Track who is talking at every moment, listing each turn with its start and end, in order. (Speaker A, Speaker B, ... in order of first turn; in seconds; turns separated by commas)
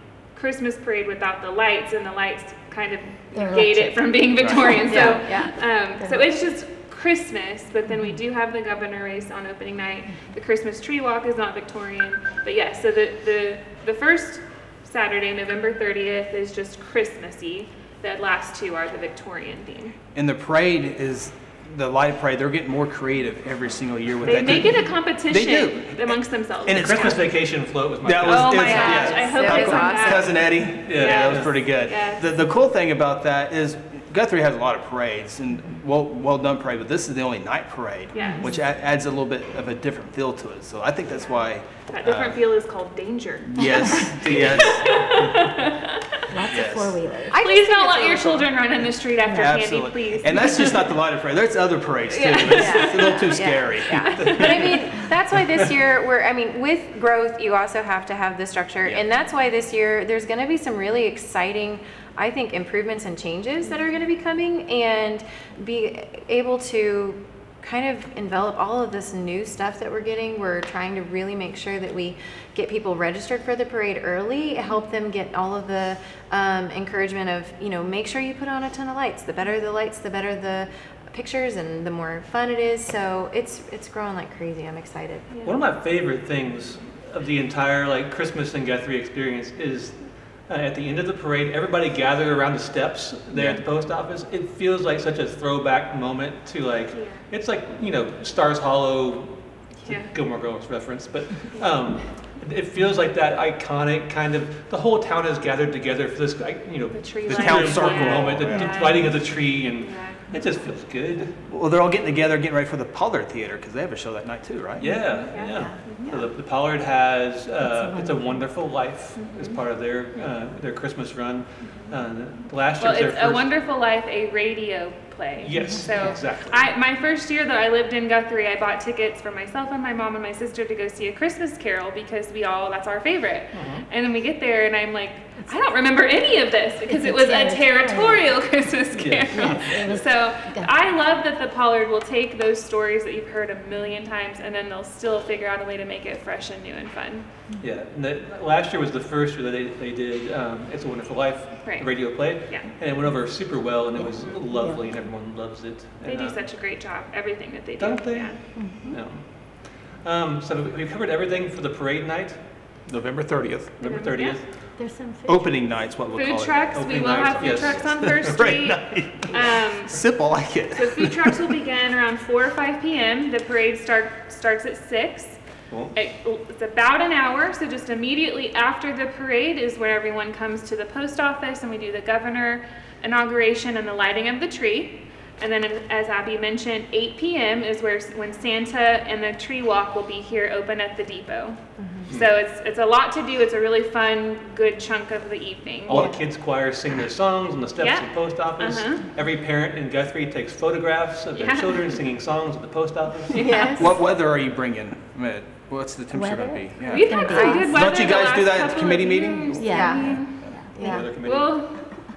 Speaker A: 0.3-19.9, Speaker B: 3.3-5.0, Speaker C: 4.4-4.8, Speaker D: 4.8-5.7, Speaker C: 20.1-42.4, Speaker A: 24.2-27.2, Speaker E: 24.2-24.8, Speaker E: 26.7-29.2, Speaker A: 28.2-32.2, Speaker D: 28.6-30.5, Speaker E: 30.8-31.6, Speaker A: 38.1-38.5, Speaker B: 38.2-38.6, Speaker A: 41.1-46.3, Speaker C: 43.4-45.2, Speaker E: 44.2-45.4, Speaker B: 46.3-47.4, Speaker C: 46.5-47.0, Speaker D: 47.3-48.5, Speaker A: 47.3-51.0, Speaker C: 49.2-54.7, Speaker A: 52.1-54.4, Speaker D: 52.5-85.3, Speaker E: 54.2-54.9, Speaker A: 85.3-85.6, Speaker E: 85.4-111.4, Speaker A: 96.9-97.2, Speaker A: 99.8-100.1, Speaker A: 106.9-110.2, Speaker C: 107.2-108.9, Speaker C: 111.4-115.2, Speaker E: 114.8-123.5, Speaker A: 114.8-116.1, Speaker B: 117.6-118.3, Speaker A: 119.2-119.6, Speaker A: 121.6-122.0, Speaker A: 122.8-147.3, Speaker E: 125.4-126.7, Speaker B: 125.6-125.9, Speaker E: 133.5-133.9, Speaker B: 136.9-138.3, Speaker E: 138.9-139.9, Speaker B: 139.3-140.8, Speaker E: 147.6-156.4, Speaker A: 151.6-152.7, Speaker B: 153.9-155.0, Speaker A: 156.0-158.4, Speaker E: 157.8-162.6, Speaker B: 158.5-159.0, Speaker C: 162.8-163.8, Speaker E: 163.8-164.5, Speaker A: 163.8-164.4, Speaker B: 164.8-165.5, Speaker C: 165.2-171.6, Speaker A: 166.1-175.4, Speaker E: 166.7-168.4, Speaker E: 175.7-175.9, Speaker A: 175.9-196.1, Speaker D: 191.8-192.1, Speaker E: 195.9-203.5, Speaker D: 195.9-196.2, Speaker A: 197.8-199.0, Speaker A: 201.4-202.0, Speaker A: 203.3-203.8, Speaker D: 203.3-204.0, Speaker C: 203.8-210.7, Speaker B: 206.1-207.8, Speaker A: 206.9-210.3, Speaker D: 207.2-207.8, Speaker B: 209.3-211.0, Speaker D: 209.7-211.1, Speaker E: 210.8-211.6, Speaker A: 211.2-211.9